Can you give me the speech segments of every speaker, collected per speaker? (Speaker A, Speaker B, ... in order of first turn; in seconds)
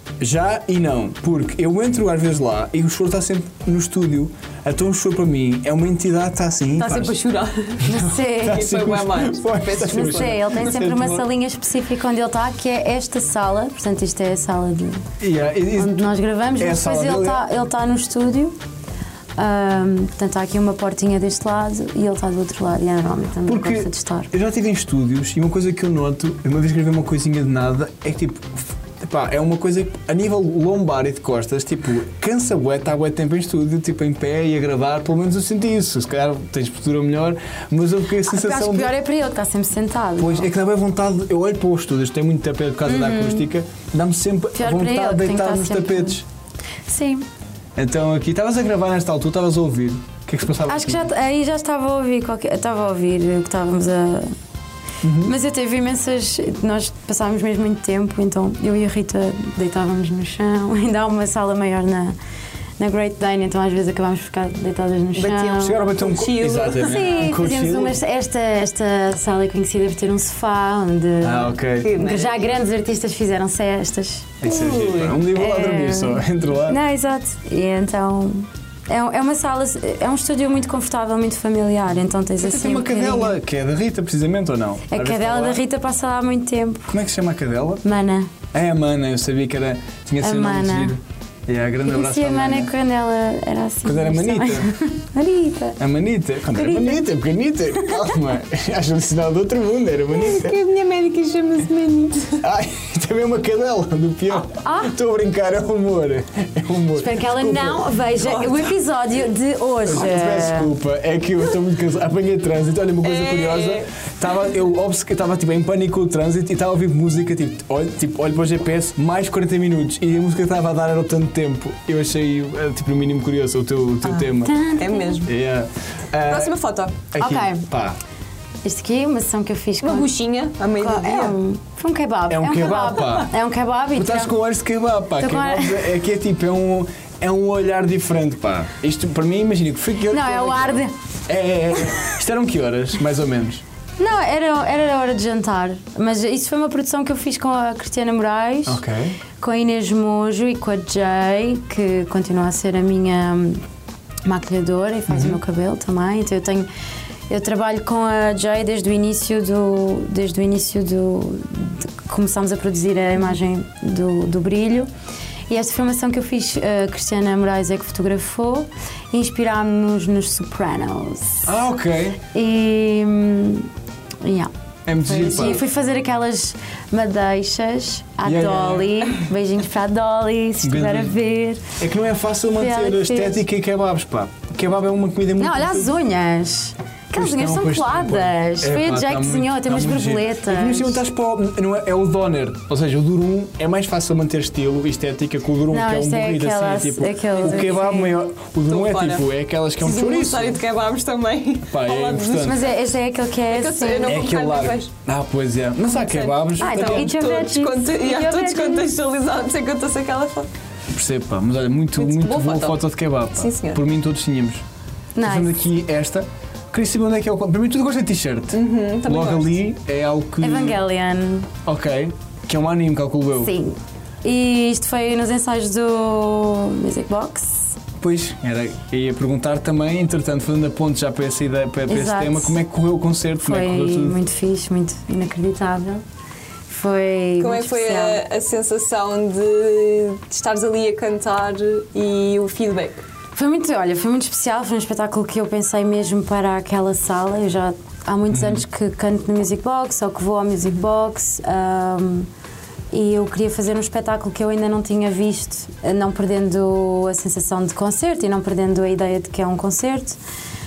Speaker A: 0.2-7.2, 7.8-11.3, 15.2-17.5, 23.5-38.9, 40.2-46.2, 47.8-51.1, 55.0-55.3, 65.6-68.0, 71.2-72.0, 74.4-76.8, 82.4-85.6, 86.9-87.8, 88.5-92.7, 93.8-94.7, 95.8-100.6, 102.4-108.0, 109.9-124.5, 125.2-126.5, 127.1-128.0, 132.3-133.3, 134.0-143.6, 148.7-149.2, 155.1-155.4, 171.5-172.2, 174.9-175.7, 178.2-179.2, 180.6-181.2, 181.8-185.9, 187.1-200.6, 201.7-202.7, 204.0-207.2, 210.9-214.6, 215.2-220.8, 221.7-223.5, 228.0-234.2, 248.3-248.6
Speaker B: 6.8-7.9, 8.4-10.5, 65.2-67.3, 71.8-72.5, 74.4-75.2, 100.2-102.5, 108.2-108.7, 113.0-113.9, 124.8-125.3, 126.3-127.0, 129.8-131.4, 197.4-197.9, 198.7-199.3, 199.8-202.7, 203.5-204.9, 206.0-210.5, 212.0-212.8, 213.3-213.8, 218.5-219.6, 237.4-243.0
Speaker C: 7.8-8.7, 9.9-15.1, 15.8-18.6, 19.4-24.3, 38.3-40.5, 42.9-43.5, 44.5-46.2, 46.9-47.3, 50.7-54.4, 55.2-62.1, 62.8-65.8, 66.8-83.4, 84.9-86.9, 87.8-88.3, 90.2-91.0, 91.8-95.8, 96.5-97.0, 97.8-98.1, 104.5-104.9, 107.0-110.7, 124.4-125.3, 127.2-127.7, 128.6-130.1, 130.8-134.3, 135.2-135.9, 140.1-140.9, 144.0-148.8, 149.4-153.6, 154.2-156.7, 157.3-164.9, 165.5-171.5, 172.3-173.7, 174.2-181.7, 182.6-183.4, 185.4-191.0, 195.7-198.2, 202.4-204.2, 206.6-208.9, 215.2-215.6, 220.4-221.5, 223.4-227.7, 231.9-232.6, 233.4-236.0, 236.7-238.2, 243.3-252.3, 252.9-260.2